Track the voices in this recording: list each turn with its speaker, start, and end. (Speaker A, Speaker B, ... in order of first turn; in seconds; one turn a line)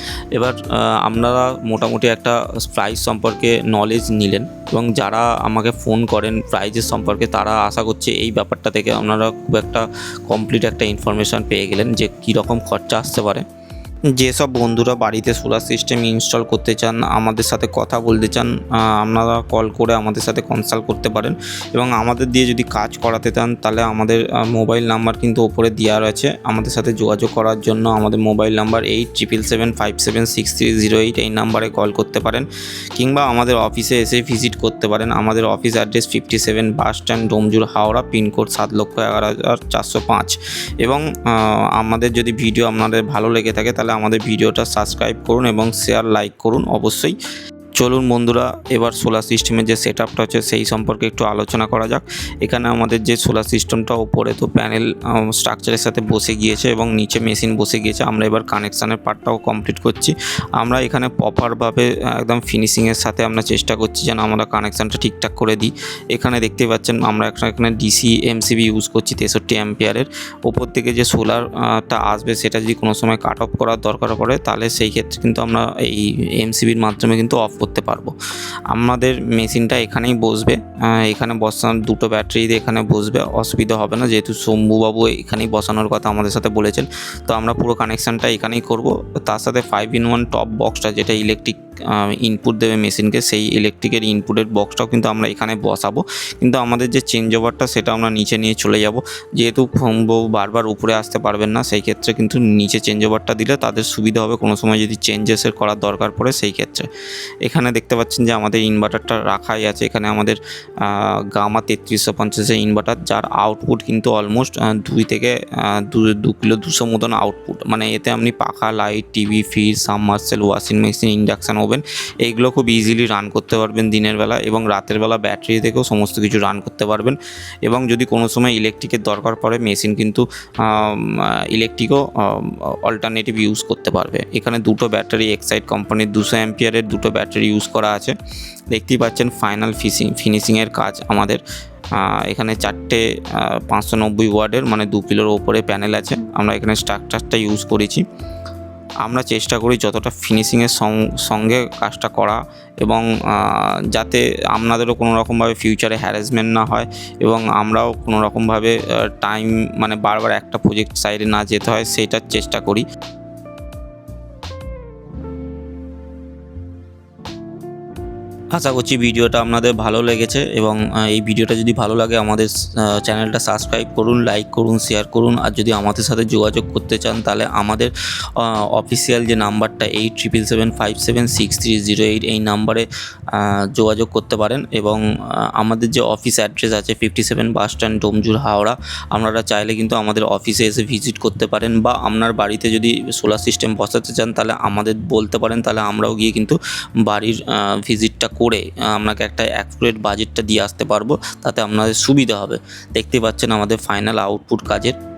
Speaker A: 0.3-13.4
Speaker A: 14.1-47.2
Speaker A: 47.8-78.2
Speaker A: 78.7-106.9
Speaker A: 107.4-138.2
Speaker A: 138.7-141.4
Speaker A: 141.9-148.0
Speaker A: 149.0-162.8
Speaker A: 168.5-205.0